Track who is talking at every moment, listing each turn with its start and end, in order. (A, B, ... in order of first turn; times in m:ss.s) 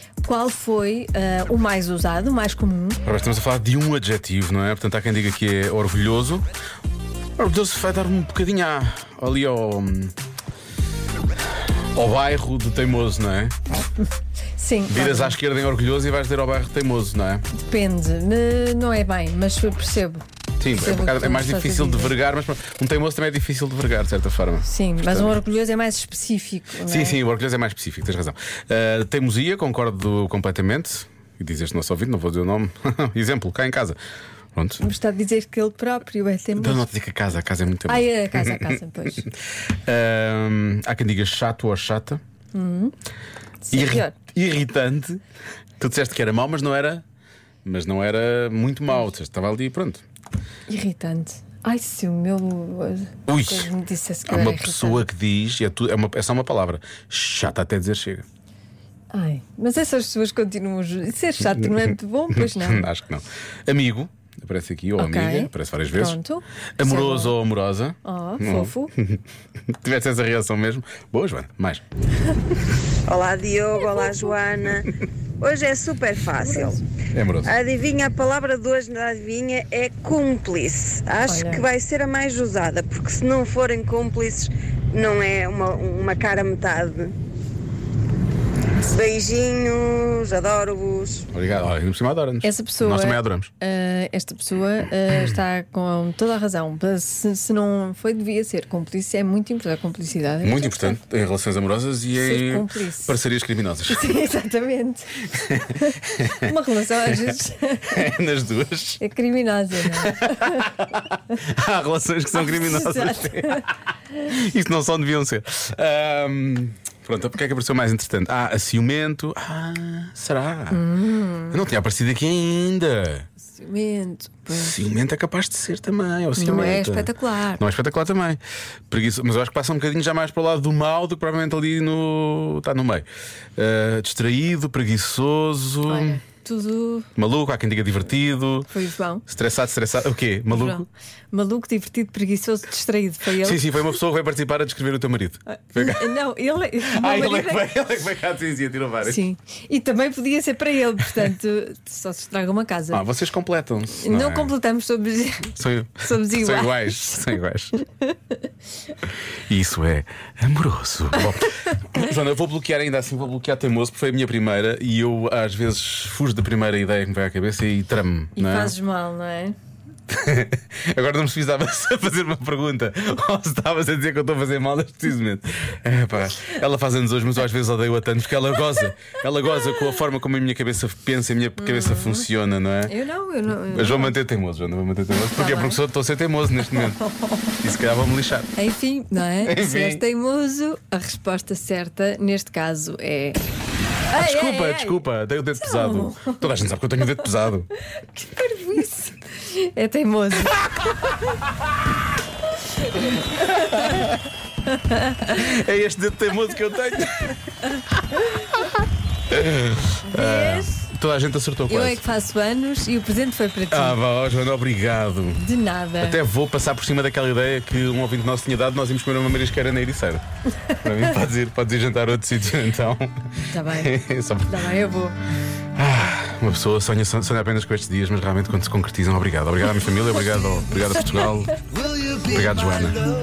0:00.2-0:03.0 A
0:03.0-0:06.4 B
0:07.4-0:10.1 B
0:11.9-0:13.6 B
0:14.6-0:15.4 A
0:14.9-0:17.4 B
0:17.5-0:20.2 A
0:20.6-0:25.4 B
0:20.8-0:22.1 A
0:24.6-0:27.2 A
0:26.8-0:34.0 B
0:34.5-0:34.8 B
0:34.8-0:36.9 A
0:36.6-0:42.2 B
0:37.9-0:39.3 A
0:42.5-0:42.9 A
0:43.6-0:44.1 A
0:43.7-0:45.2 B
0:45.8-0:47.0 B
0:47.6-0:50.0 B
0:50.7-0:55.0 A
0:53.3-0:53.7 B
0:54.3-0:58.2 B
0:59.1-1:02.9 A
1:01.6-1:06.2 B
1:05.0-1:07.4 A
1:06.8-1:11.8 B
1:08.0-1:08.9 A
1:13.0-1:16.8 C
1:16.4-1:16.8 A
1:17.1-1:17.5 B
1:17.4-1:27.1 C
1:21.2-1:21.7 A
1:28.8-1:31.3 C
1:31.3-1:33.5 B
1:32.4-1:41.0 A
1:35.1-1:35.4 B
1:40.4-1:44.1 B
1:42.1-1:43.2 A
1:43.9-1:48.0 A
1:45.4-1:49.0 B
1:49.0-1:50.7 A
1:49.9-1:53.6 B
1:52.3-1:53.6 A
1:54.2-2:00.8 B
2:00.7-2:01.6 A
2:01.5-2:03.3 B
2:03.4-2:04.7 A
2:04.5-2:13.0 B
2:06.4-2:07.6 A
2:13.6-2:16.2 B
2:15.9-2:17.1 A
2:17.2-2:18.7 B
2:18.7-2:19.2 A
2:19.3-2:20.9 B
2:20.5-2:23.8 A
2:23.4-2:26.2 B
2:25.5-2:27.7 A
2:26.8-2:29.2 B
2:29.0-2:33.1 A
2:32.9-2:34.5 B
2:34.0-2:38.4 A
2:35.6-2:37.7 B
2:39.5-2:48.7 B
2:41.2-2:41.8 A
2:48.4-2:49.6 A
2:50.1-3:02.9 B
2:58.6-2:59.9 A
3:01.6-3:02.3 A
3:02.8-3:04.2 A
3:03.7-3:07.0 B
3:05.3-3:05.8 A
3:06.6-3:07.4 A
3:07.6-3:08.5 B
3:08.6-3:13.4 A
3:09.4-3:10.0 B
3:14.1-3:15.0 A
3:14.1-3:17.7 B
3:15.6-3:16.5 A
3:17.9-3:21.4 A
3:20.6-3:21.0 B
3:22.8-3:24.1 A
3:23.4-3:24.2 B
3:24.6-3:25.5 A
3:25.2-3:27.4 B
3:27.8-3:28.5 A
3:28.3-3:28.7 B
3:29.3-3:32.0 B
3:30.0-3:30.9 A
3:31.7-3:34.0 A
3:33.7-3:35.4 B
3:35.4-3:36.2 A
3:36.0-3:40.2 B
3:40.8-3:44.6 B
3:43.5-3:43.9 A
3:44.4-3:45.2 A
3:45.8-3:51.6 B
3:52.2-3:53.1 B